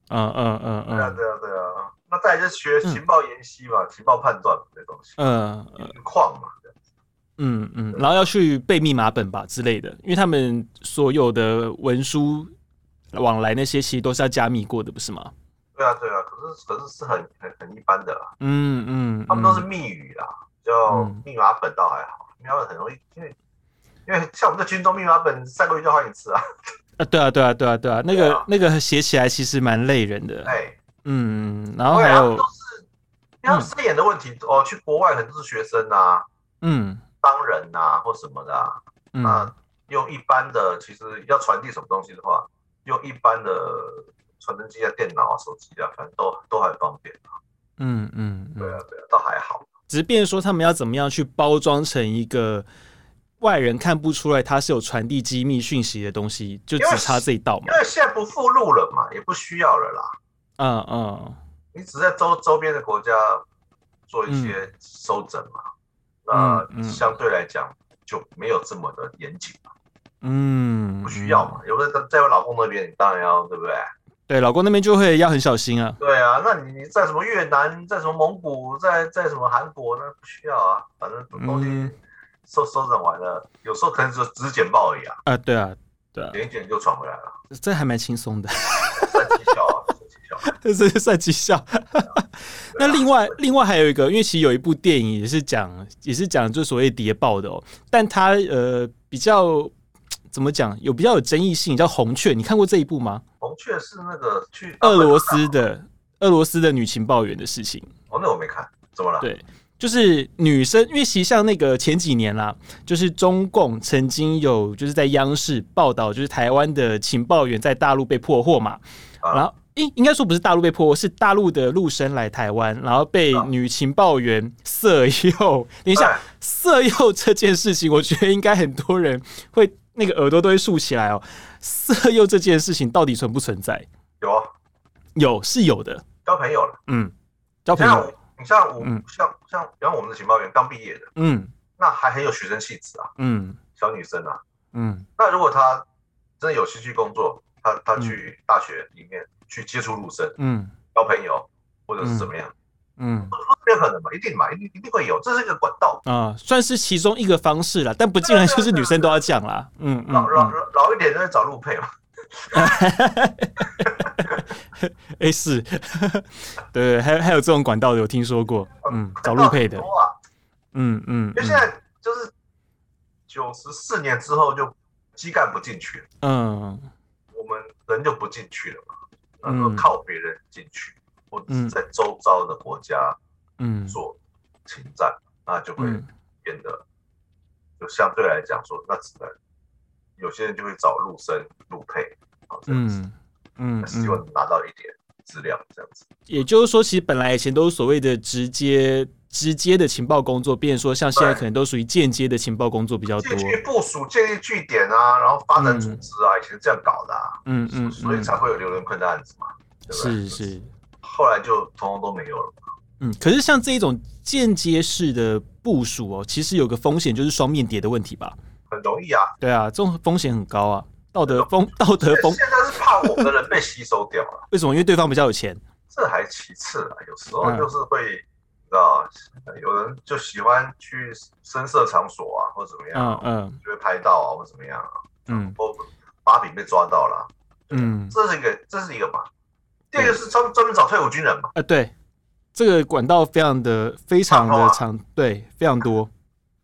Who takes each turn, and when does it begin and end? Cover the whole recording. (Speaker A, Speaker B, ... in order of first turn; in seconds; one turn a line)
Speaker A: 0.1-1.2
Speaker B: 0.9-5.2
Speaker A: 5.2-5.9
Speaker B: 5.8-6.7
Speaker A: 7.4-12.5
Speaker B: 7.9-8.2
Speaker A: 13.1-15.3
Speaker B: 15.8-18.3
Speaker A: 18.4-19.6
Speaker B: 19.3-23.3
Speaker A: 20.9-21.2
Speaker B: 24.1-26.4
Speaker A: 27.0-32.4
Speaker B: 28.1-28.4
Speaker B: 30.4-30.8
Speaker B: 31.9-32.9
Speaker B: 33.4-36.2
Speaker A: 36.6-37.0
Speaker B: 37.2-47.3
Speaker A: 39.1-39.5
Speaker A: 47.8-48.8
Speaker B: 48.6-49.7
Speaker A: 49.9-52.7
Speaker A: 53.4-57.8
Speaker B: 56.8-60.1
Speaker A: 60.6-61.4
Speaker B: 61.7-63.4
Speaker B: 64.1-65.6
Speaker A: 64.3-64.5
Speaker B: 66.2-69.7
Speaker A: 66.3-67.0
Speaker A: 70.2-71.6
Speaker B: 71.0-73.9
Speaker A: 74.3-76.0
Speaker B: 76.0-85.2
Speaker A: 81.3-81.9
Speaker A: 85.2-86.4
Speaker B: 86.3-87.3
Speaker A: 87.5-89.2
Speaker B: 89.0-90.5
Speaker A: 90.4-99.7
Speaker B: 92.7-93.4
Speaker A: 100.3-103.2
Speaker B: 103.4-105.5
Speaker A: 104.8-107.9
Speaker B: 108.1-109.3
Speaker A: 109.2-133.8
Speaker B: 119.2-119.5
Speaker B: 125.9-126.2
Speaker B: 134.2-134.5
Speaker A: 135.2-136.0
Speaker B: 136.2-136.8
Speaker A: 136.9-137.1
Speaker A: 137.6-138.1
Speaker B: 137.7-141.1
Speaker A: 141.2-141.5
Speaker B: 141.8-143.1
Speaker A: 143.2-143.6
Speaker B: 143.8-144.4
Speaker A: 144.7-145.1
Speaker B: 145.2-145.8
Speaker B: 146.4-150.3
Speaker A: 150.4-150.7
Speaker B: 150.9-152.5
Speaker A: 152.0-152.3
Speaker A: 153.0-153.3
Speaker B: 153.3-156.0
Speaker A: 156.0-160.5
Speaker B: 158.2-159.2
Speaker B: 160.1-162.8
Speaker A: 162.5-169.8
Speaker B: 163.8-164.4
Speaker B: 168.8-170.2
Speaker A: 170.7-171.7
Speaker B: 171.3-172.3
Speaker B: 173.3-176.1
Speaker A: 176.2-176.9
Speaker B: 177.3-178.9
Speaker B: 179.4-183.2
Speaker A: 179.4-179.9
Speaker A: 181.5-181.7
Speaker A: 183.6-184.0
Speaker B: 183.9-186.8
Speaker A: 185.8-186.1
Speaker B: 187.8-189.3
Speaker B: 190.2-192.9
Speaker A: 192.7-194.2
Speaker B: 193.8-196.0
Speaker A: 196.3-203.6
Speaker B: 201.1-201.4
Speaker B: 203.2-210.4
Speaker A: 205.6-206.0
Speaker A: 207.4-208.3
Speaker A: 209.9-210.7
Speaker B: 211.0-212.6
Speaker A: 213.0-218.3
Speaker B: 218.7-219.3
Speaker A: 219.4-222.4
Speaker B: 221.3-224.4
Speaker A: 223.0-223.3
Speaker A: 224.5-225.6
Speaker B: 225.9-239.3
Speaker A: 227.4-227.7
Speaker A: 232.9-233.6
Speaker A: 235.3-235.6
Speaker A: 237.7-238.2
Speaker B: 239.9-241.5
Speaker A: 241.5-241.9
Speaker A: 242.5-246.1
Speaker B: 244.3-244.8